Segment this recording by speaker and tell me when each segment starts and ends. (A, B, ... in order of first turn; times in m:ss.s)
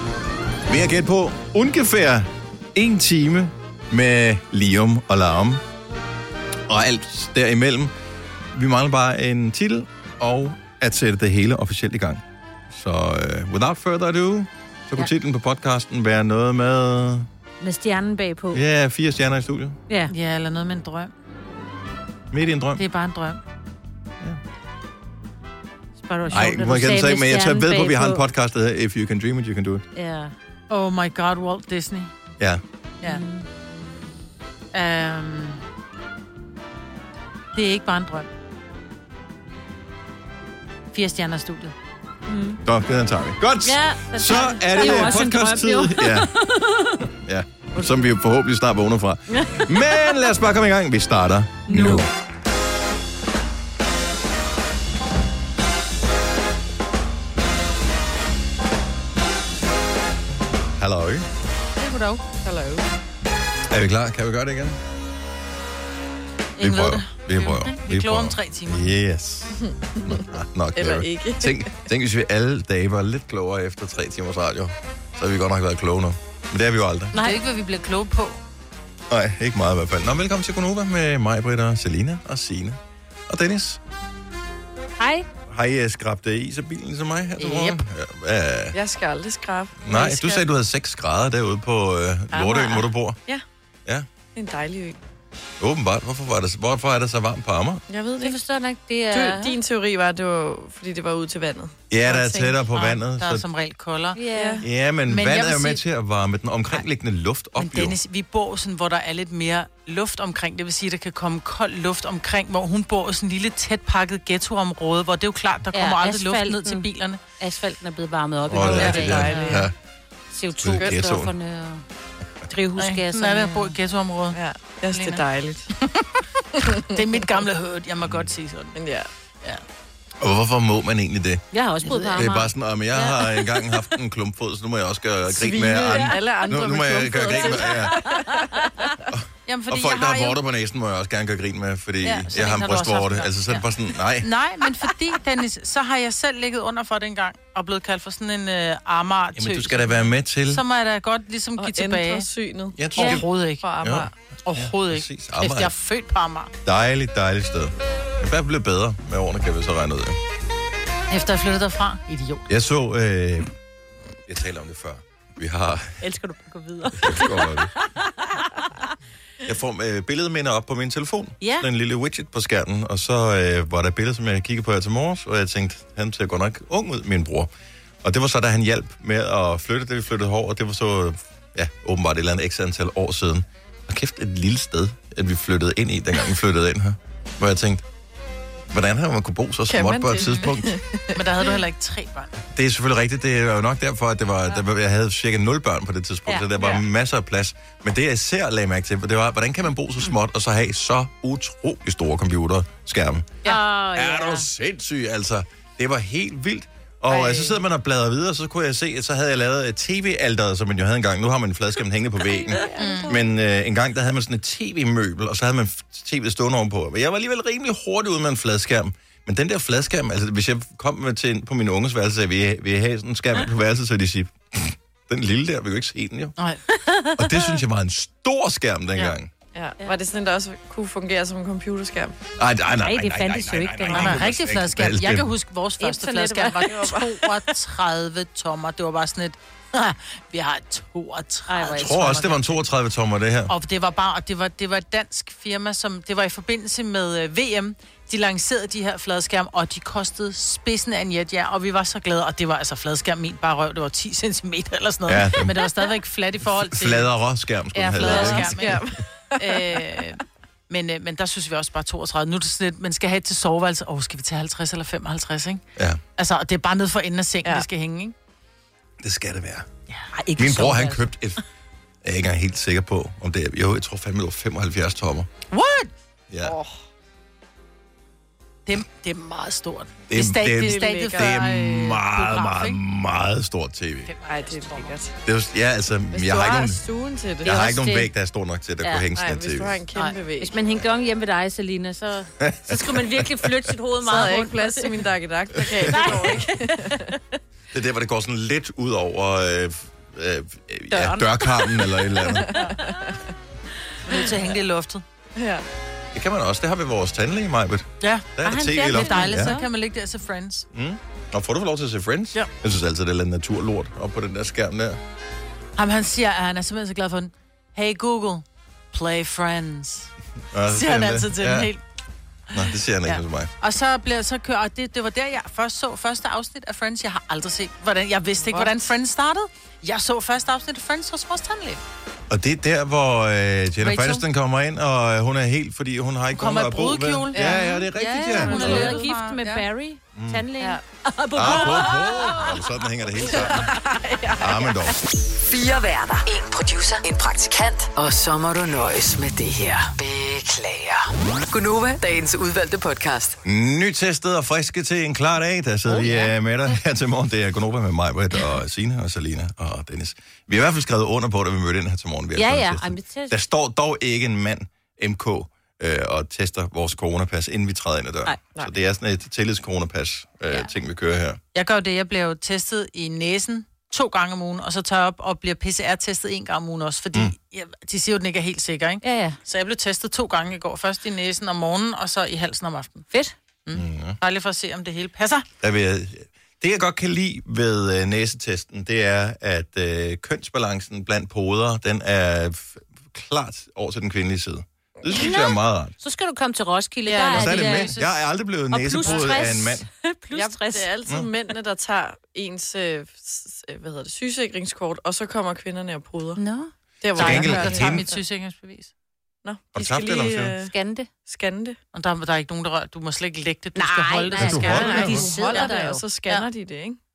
0:00.7-0:05.6 A
0:06.7-0:07.9 A
0:08.5-0:17.3 A
0:17.6-0:18.6 B
0:18.5-0:19.8 A
0:20.1-0:21.1 C
0:22.3-0:22.8 A
0:22.8-0:23.4 C
0:26.0-0:28.2 B
0:26.3-0:29.8 A
0:30.0-0:30.3 B
0:30.7-0:32.1 C
0:33.0-0:33.5 B
0:34.7-0:35.6 C
0:37.6-0:38.3 C
0:40.9-0:41.7 C
0:42.3-0:42.6 B
0:42.6-0:46.3 A
0:43.6-0:47.0 B
0:44.3-0:45.2 C
0:47.2-0:52.1 A
0:49.3-0:50.3 B
0:51.7-0:52.1 B
1:00.8-1:01.2 A
1:01.8-1:02.2 C
1:02.4-1:02.9 D
1:03.7-1:04.8 A
1:06.6-1:08.9 C
1:06.6-1:17.1 A
1:09.6-1:10.2 D
1:10.8-1:11.7 D
1:17.1-1:17.4 B
1:17.1-1:18.4 C
1:19.1-1:23.8 A
1:25.0-1:25.3 B
1:25.5-1:28.8 A
1:27.4-1:27.8 C
1:28.7-1:30.2 D
1:29.8-1:33.2 A
1:29.9-1:30.4 B
1:32.3-1:33.4 D
1:34.4-1:35.0 D
1:35.6-1:37.8 A
1:37.9-1:38.4 D
1:38.2-1:39.6 B
1:39.1-1:42.6 D
1:41.9-1:43.4 A
1:42.7-1:44.2 C
1:44.2-1:44.6 B
1:44.3-1:44.6 D
1:44.6-1:48.0 A
1:45.1-1:45.8 C
1:47.6-1:57.2 C
1:55.7-1:56.9 B
1:57.4-1:59.7 B
1:58.5-1:59.7 A
1:58.8-1:59.7 D
2:00.3-2:01.8 B
2:00.6-2:01.3 A
2:02.5-2:03.8 B
2:02.8-2:04.4 C
2:04.3-2:05.7 D
2:04.9-2:05.2 C
2:05.8-2:08.8 C
2:06.6-2:07.4 D
2:08.8-2:09.1 D
2:10.2-2:11.4 A
2:11.5-2:13.4 B
2:12.1-2:18.1 A
2:15.3-2:19.0 D
2:19.1-2:24.3 A
2:19.5-2:20.4 C
2:22.0-2:32.2 C
2:29.4-2:30.6 A
2:31.6-2:34.1 D
2:32.8-2:33.3 A
2:33.0-2:33.7 C
2:33.8-2:35.7 A
2:34.4-2:36.5 C
2:36.6-2:40.2 A
2:41.1-2:42.5 C
2:42.5-2:43.5 A
2:44.3-2:46.0 A
2:46.0-2:48.1 B
2:46.9-2:47.7 A
2:49.4-2:57.5 A
2:51.4-2:51.7 B
2:58.0-3:07.8 A
3:08.7-3:10.8 A
3:09.7-3:11.5 D
3:10.2-3:10.5 C
3:11.2-3:12.3 C
3:12.6-3:23.3 A
3:16.3-3:16.8 B
3:23.4-3:24.5 B
3:23.9-3:46.3 A
3:27.1-3:27.6 D
3:32.3-3:33.2 B
3:32.7-3:33.1 C
3:46.4-3:47.0 C
3:47.2-3:49.3 A
3:49.5-3:52.1 D
3:52.4-3:55.3 A
3:52.8-3:54.3 B
3:53.9-4:02.5 C
3:55.8-3:56.7 B
3:56.6-3:57.2 D
4:01.5-4:02.4 B
4:01.8-4:03.5 A
4:03.5-4:17.1 C
4:15.1-4:15.6 A
4:16.6-4:18.8 A
4:17.7-4:18.8 C
4:18.0-4:18.4 B
4:18.1-4:20.1 D
4:19.4-4:25.6 C
4:26.2-4:28.1 C
4:29.0-4:29.7 A
4:30.1-4:31.0 B
4:30.4-4:31.4 A
4:32.0-4:35.3 A
4:35.5-4:35.9 C
4:36.3-4:36.6 A
4:36.4-4:36.8 D
4:38.7-4:42.8 C
4:40.1-4:44.1 A
4:40.5-4:41.4 D
4:44.1-4:45.0 C
4:44.3-4:45.1 D
4:45.2-4:46.8 A
4:46.1-4:47.5 D
4:47.4-4:49.8 A
4:47.4-4:48.1 B
4:48.8-4:49.1 B
4:49.1-4:50.5 D
4:50.4-4:55.1 B
4:52.4-4:53.5 A
4:54.0-4:57.1 D
4:55.7-4:56.9 B
4:55.7-4:56.1 A
4:57.7-5:02.6 A
5:00.9-5:01.9 B
5:02.3-5:03.2 D
5:04.1-5:05.0 C
5:05.4-5:05.6 D
5:06.1-5:09.6 A
5:08.0-5:10.7 C
5:08.4-5:09.7 B
5:10.7-5:15.0 A
5:15.8-5:20.1 C
5:20.5-5:21.7 A
5:20.7-5:21.8 C
5:22.5-5:23.5 A
5:23.1-5:31.8 C
5:28.4-5:28.8 D
5:32.3-5:39.0 A
5:33.8-5:34.2 C
5:36.4-5:39.6 C
5:37.3-5:37.8 D
5:38.4-5:42.5 B
5:40.2-5:40.4 A
5:41.4-5:43.8 A
5:43.3-5:45.0 D
5:44.4-5:45.0 A
5:45.3-5:53.4 E
5:53.4-6:11.4 A
5:55.9-5:56.3 B
6:02.4-6:03.4 B
6:11.5-6:23.0 C
6:19.0-6:19.4 B
6:23.7-6:25.5 C
6:23.7-6:24.2 A
6:25.6-6:35.9 A
6:36.0-6:38.0 B
6:37.1-6:38.2 C
6:37.3-6:39.9 A
6:38.7-6:40.9 B
6:40.3-6:46.4 D
6:46.4-6:46.7 B
6:47.0-6:48.0 D
6:47.2-6:48.9 C
6:47.2-6:48.0 A
6:49.4-6:50.7 D
6:49.8-6:50.6 A
6:50.7-6:51.1 B
6:51.3-6:51.8 D
6:51.9-6:56.5 C
6:53.8-6:56.0 B
6:54.4-6:55.3 A
6:54.7-6:57.0 D